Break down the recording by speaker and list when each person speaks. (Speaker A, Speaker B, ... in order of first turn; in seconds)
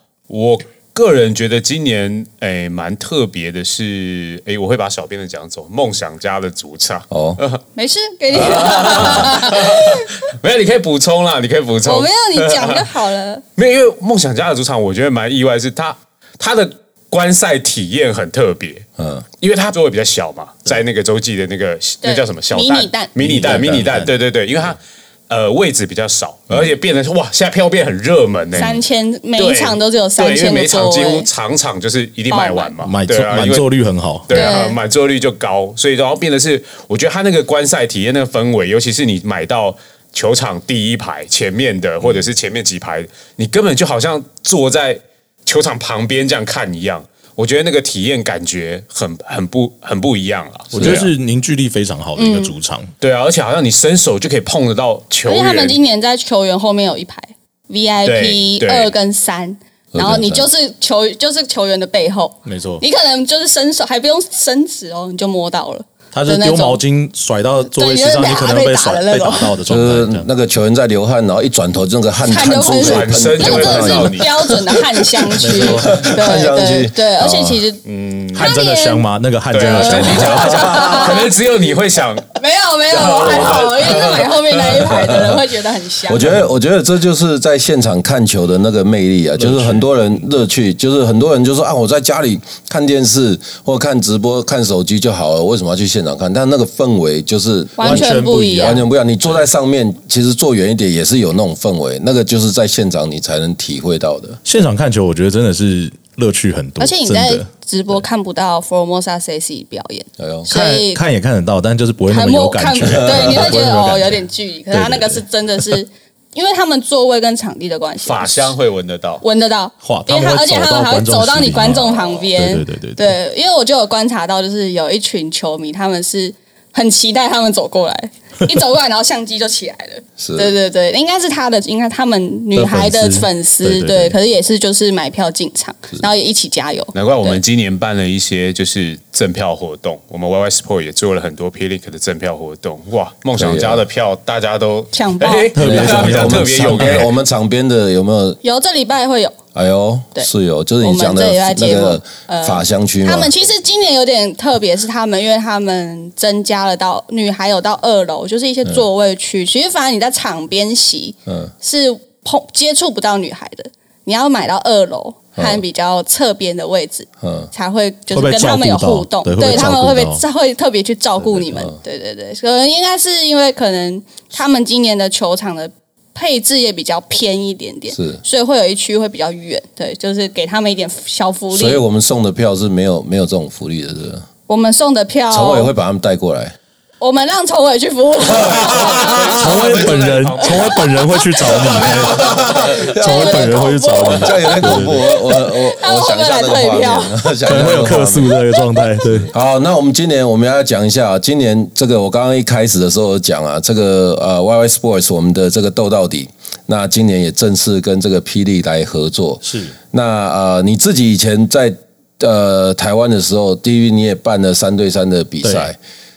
Speaker A: 0.3-7.6, 8.3-12.9, 13.6-18.9, 19.4-28.9, 29.4-33.6, 34.3-51.1, 53.0-55.8, 58.0-58.9, 72.6-74.6, 77.8-78.5, 79.5-82.3, 82.9-84.9, 118.0-119.2, 136.9-147.1, 188.7-191.0
Speaker B: 7.1-7.4, 19.0-19.2, 50.7-51.1, 59.9-60.5, 69.7-77.6, 84.8-85.4, 86.0-104.4, 110.2-110.5, 113.0-113.4, 130.2-130.5, 143.4-143.8, 145.6-148.4, 149.5-153.3, 161.3-161.5, 165.3-165.6, 167.2-167.5, 177.9-178.2, 181.5-184.2, 185.3-186.5, 188.8-189.1, 191.8-198.4, 199.2-215.8
Speaker C: 7.7-10.1, 11.8-13.4, 22.0-23.4, 28.5-31.3, 32.3-32.7, 34.3-34.8, 52.2-52.5, 55.2-66.8, 67.6-69.5, 72.2-77.8, 78.3-79.0, 79.6-81.3, 82.3-86.3, 97.8-98.8, 106.8-111.0, 112.1-118.5, 119.2-137.4, 144.9-145.5, 148.4-149.3, 150.8-181.8, 184.5-185.7, 187.0-189.4, 192.5-197.4, 198.5-199.0
Speaker D: 23.2-24.1, 32.8-34.6, 50.7-52.9, 62.4-62.8, 66.1-70.3, 75.4-76.1, 78.3-81.0, 89.3-90.2, 97.8-99.4, 104.4-107.9, 110.5-115.8, 119.8-123.1, 132.5-134.2, 145.5-147.1, 168.1-170.2, 189.3-195.0, 197.4-199.3, 209.4-209.8, 215.4-215.7